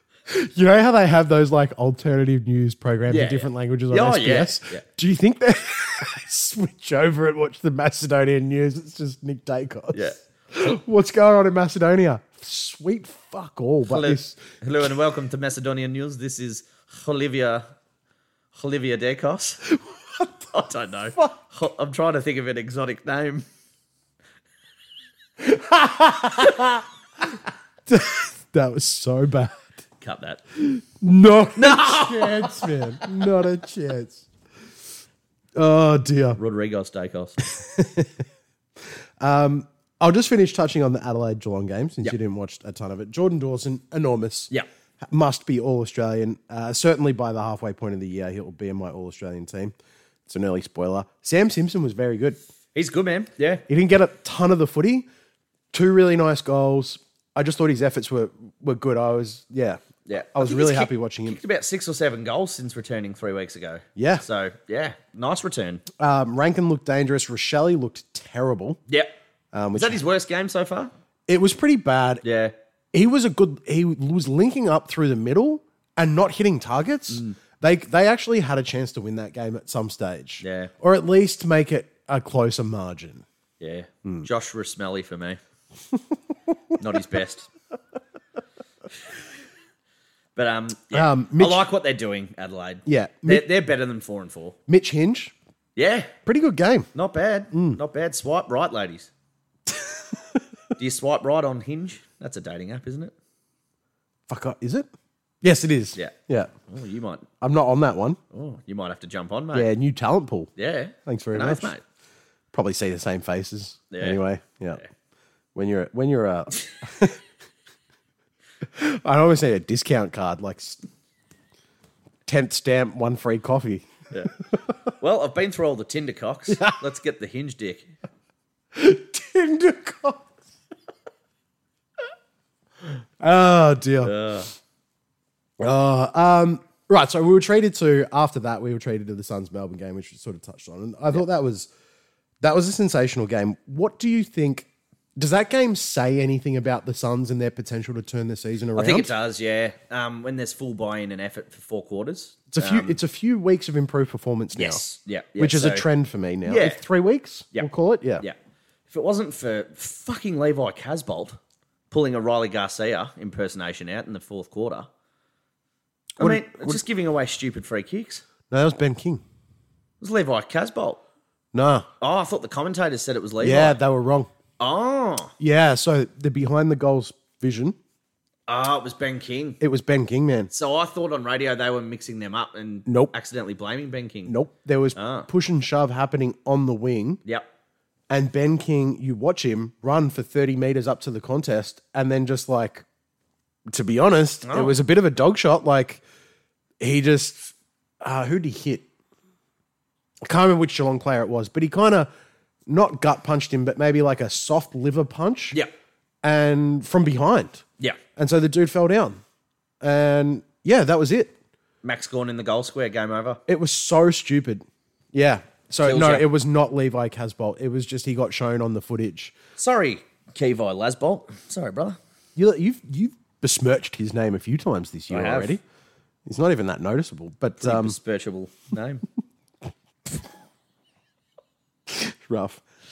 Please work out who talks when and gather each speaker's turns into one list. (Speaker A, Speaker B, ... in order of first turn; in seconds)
Speaker A: 0.3-14.4, 19.7-20.3, 25.4-26.8, 27.9-29.8, 30.6-34.3, 35.5-36.4, 37.4-38.2, 39.2-44.5, 45.1-49.7, 50.3-52.4, 53.7-55.0, 55.7-61.4, 64.0-64.2, 66.0-68.8, 69.5-70.0, 71.3-72.2, 72.9-83.2, 90.9-91.6, 92.8-93.5, 94.7-95.3, 96.2-96.9, 97.5-97.8, 99.7-100.1, 104.3-104.9, 105.4-106.5, 107.4-108.2, 109.5-110.5, 111.0-111.7, 112.5-114.8, 115.5-117.2, 118.7-120.8, 122.2-123.9, 126.5-126.8, 128.7-130.3, 133.2-134.4, 135.6-141.7, 142.4-149.1, 152.5-154.8, 155.4-158.2, 166.2-166.8, 168.5-169.2, 171.5-171.9, 173.4-174.3, 175.4-177.8, 179.6-180.5, 182.9-183.1, 184.2-187.2, 188.1-192.8, 193.7-196.0, 196.8-198.8, 200.2-202.1, 202.7-205.6, 206.2-207.6, 208.2-209.2, 209.8-211.3, 213.5-219.3, 222.3-225.6, 226.3-227.9, 231.9-232.6
Speaker B: 3.1-4.8, 9.9-10.7, 13.9-17.6, 18.5-19.6, 20.5-23.4, 30.0-30.4, 31.6-33.1, 36.4-37.4, 52.7-53.6, 60.0-65.8, 69.8-70.9, 72.2-72.5, 80.4-80.7, 83.6-85.4, 86.8-87.5, 90.3-94.6, 95.8-96.1, 96.9-99.1, 100.8-103.1, 106.7-107.3, 108.3-109.7, 110.6-111.8, 113.9-114.2, 125.0-127.9, 134.0-134.5, 148.8-153.0, 154.6-155.9, 156.4-156.8, 158.9-161.4, 161.9-164.9, 166.2-168.2, 170.0-171.0, 172.0-173.8, 174.6-175.3, 178.5-179.6, 180.5-184.3, 184.9-185.3, 194.4-194.8, 211.8-213.4, 215.8-216.3, 219.6-222.0, 225.1-225.6, 227.6-229.0